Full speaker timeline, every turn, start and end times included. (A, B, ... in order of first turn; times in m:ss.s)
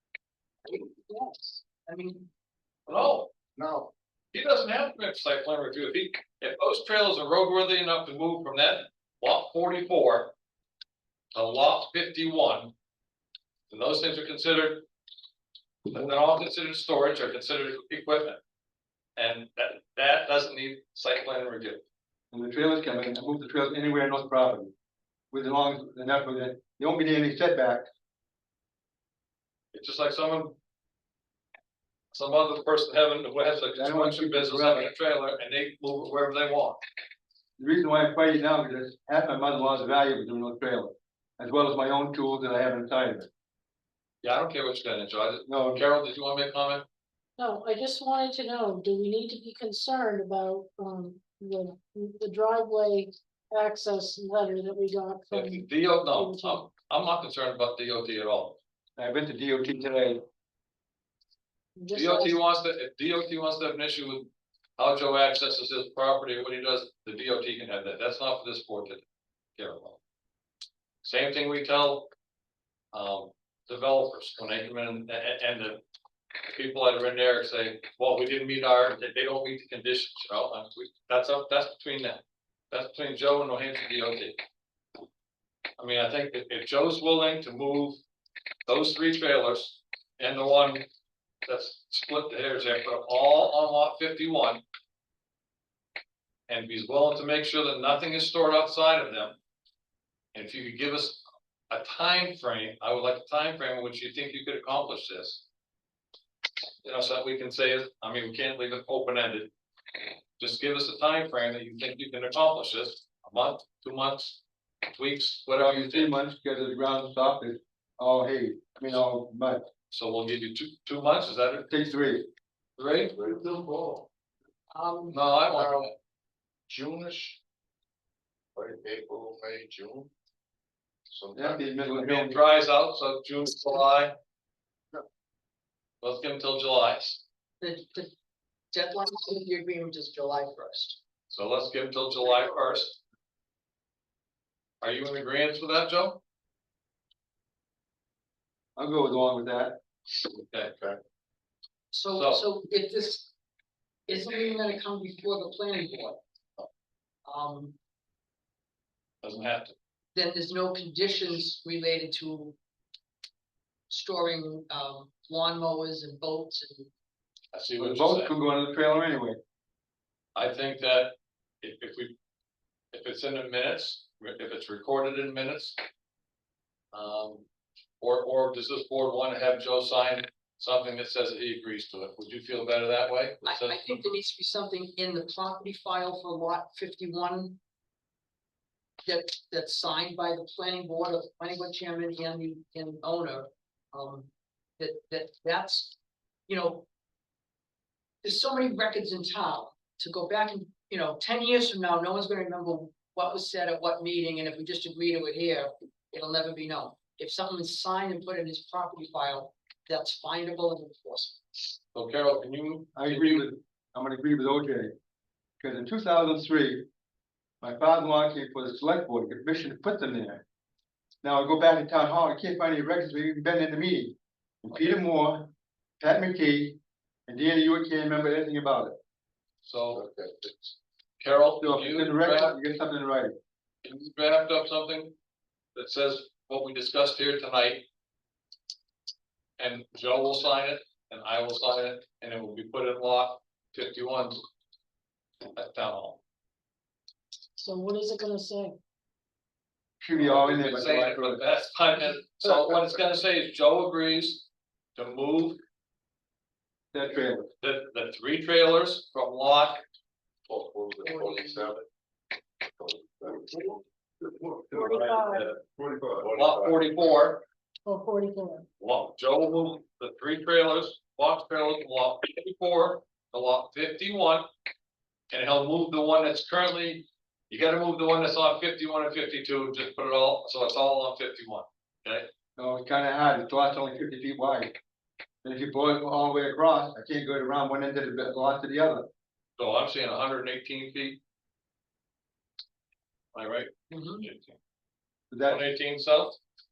0:00.6-0:02.3 A
0:02.9-0:03.3 B
0:03.6-0:03.9 C
0:04.3-0:10.3 B
0:11.3-0:12.7 B
0:13.7-0:14.9 B
0:15.9-0:18.4 B
0:19.2-0:21.8 B
0:22.3-0:24.7 D
0:25.3-0:27.8 D
0:29.7-0:30.6 B
0:32.1-0:36.8 B
0:33.7-0:34.9 D
0:37.6-0:43.3 D
0:44.2-0:46.8 B
0:45.4-0:45.8 D
0:47.4-0:56.6 E
0:55.3-0:58.6 B
0:59.0-1:00.2 D
1:01.8-1:02.4 E
1:01.9-1:09.0 B
1:09.6-1:10.0 B
1:11.0-1:12.1 B
1:12.9-1:15.8 B
1:16.5-1:24.4 B
1:25.8-1:28.0 B
1:28.7-1:30.9 B
1:31.4-1:34.6 B
1:36.5-1:39.4 B
1:40.3-1:45.4 B
1:46.8-1:49.5 B
1:50.4-1:56.1 B
1:55.6-1:59.6 D
1:59.9-2:01.7 B
2:01.7-2:02.3 D
2:02.8-2:03.2 B
2:03.2-2:04.0 C
2:04.7-2:05.2 A
2:05.1-2:05.9 B
2:05.5-2:05.9 C
2:06.7-2:07.4 C
2:08.6-2:10.1 C
2:11.1-2:11.7 C
2:11.3-2:12.4 D
2:11.8-2:14.1 B
2:16.0-2:17.2 B
2:17.6-2:18.1 A
2:18.7-2:21.0 A
2:21.3-2:23.0 B
2:24.8-2:26.2 B
2:28.8-2:29.8 D
2:30.5-2:30.7 B
2:31.9-2:33.3 A
2:32.1-2:32.4 B
2:34.1-2:36.2 A
2:37.2-2:37.8 A
2:39.2-2:39.7 B
2:40.1-2:42.6 A
2:43.9-2:46.9 A
2:47.5-2:48.3 B
2:47.8-2:49.4 D
2:50.3-2:52.1 B
2:52.9-2:55.8 B
2:56.9-2:57.4 B
2:58.0-3:03.8 B
3:03.4-3:07.6 A
3:09.0-3:16.0 A
3:16.5-3:16.9 A
3:18.2-3:31.4 A
3:31.9-3:33.4 B
3:33.0-3:34.9 D
3:35.6-3:36.8 D
3:37.6-3:40.4 D
3:41.2-3:49.0 D
3:49.6-3:50.0 B
3:49.9-3:50.7 C
3:51.2-3:52.5 B
3:51.6-3:53.3 D
3:53.8-3:55.1 B
3:55.8-3:57.8 B
3:59.6-4:04.4 B
4:05.5-4:06.2 B
4:07.6-4:08.8 E
4:10.0-4:11.4 D
4:10.2-4:15.6 B
4:16.9-4:17.4 D
4:17.6-4:19.8 B
4:20.5-4:21.8 C
4:21.0-4:21.6 A
4:22.8-4:26.9 C
4:24.7-4:25.5 E
4:25.2-4:25.5 B
4:26.3-4:27.4 B
4:27.8-4:28.6 E
4:28.8-4:34.5 B
4:35.3-4:42.3 B
4:42.6-4:44.8 D
4:45.4-4:49.1 D
4:49.6-4:51.2 B
4:53.3-4:54.6 B
4:53.9-4:54.3 A
4:55.3-4:55.6 D
4:55.4-4:56.4 B